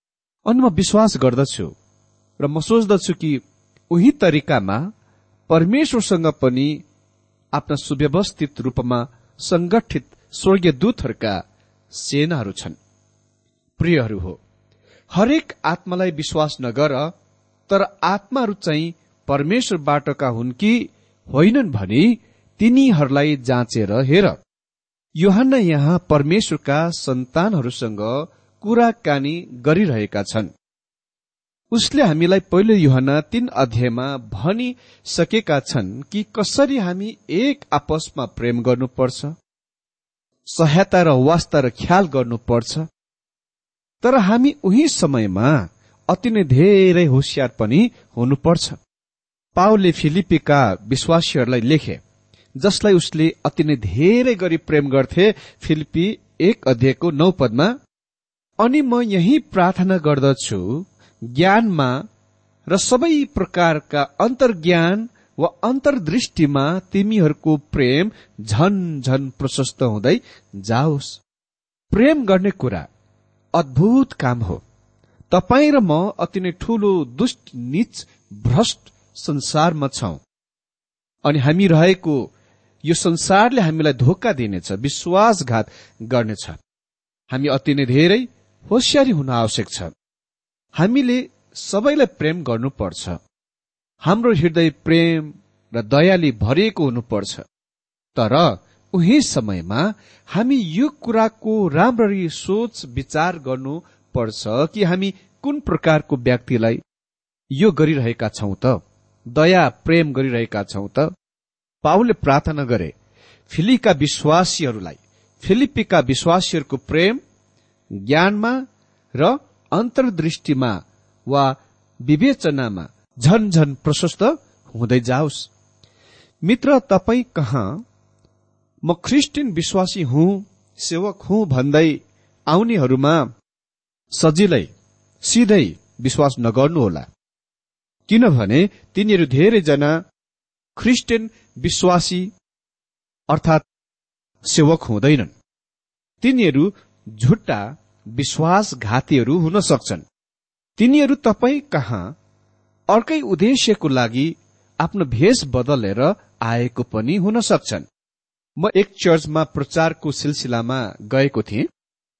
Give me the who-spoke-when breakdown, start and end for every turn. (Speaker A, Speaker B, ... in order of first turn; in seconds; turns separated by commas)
Speaker A: 0.4-1.7, Speaker A: 2.4-4.8, Speaker A: 5.5-6.8, Speaker A: 7.5-11.4, Speaker A: 11.9-12.8, Speaker A: 13.8-14.4, Speaker A: 15.1-17.1, Speaker A: 17.7-24.4, Speaker A: 25.2-30.5, Speaker A: 31.7-39.3, Speaker A: 40.5-42.9, Speaker A: 44.0-48.8, Speaker A: 49.5-52.0, Speaker A: 52.6-57.7, Speaker A: 58.6-62.0, Speaker A: 62.7-71.2, Speaker A: 71.9-72.9, Speaker A: 73.5-74.6, Speaker A: 75.3-80.2, Speaker A: 81.2-82.2, Speaker A: 82.8-86.6, Speaker A: 87.3-89.9, Speaker A: 90.7-93.2, Speaker A: 94.0-97.4, Speaker A: 98.1-106.8, Speaker A: 107.5-108.8, Speaker A: 109.3-111.1, Speaker A: 111.8-112.9, Speaker A: 113.5-117.2, Speaker A: 118.0-118.6, Speaker A: 119.2-125.5, Speaker A: 126.4-127.8, Speaker A: 128.8-133.3, Speaker A: 134.1-134.7, Speaker A: 135.2-137.1, Speaker A: 138.1-140.0, Speaker A: 140.8-142.3, Speaker A: 143.3-143.6, Speaker A: 144.4-145.3, Speaker A: 146.2-150.0, Speaker A: 150.8-152.1, Speaker A: 152.9-157.8, Speaker A: 158.6-161.7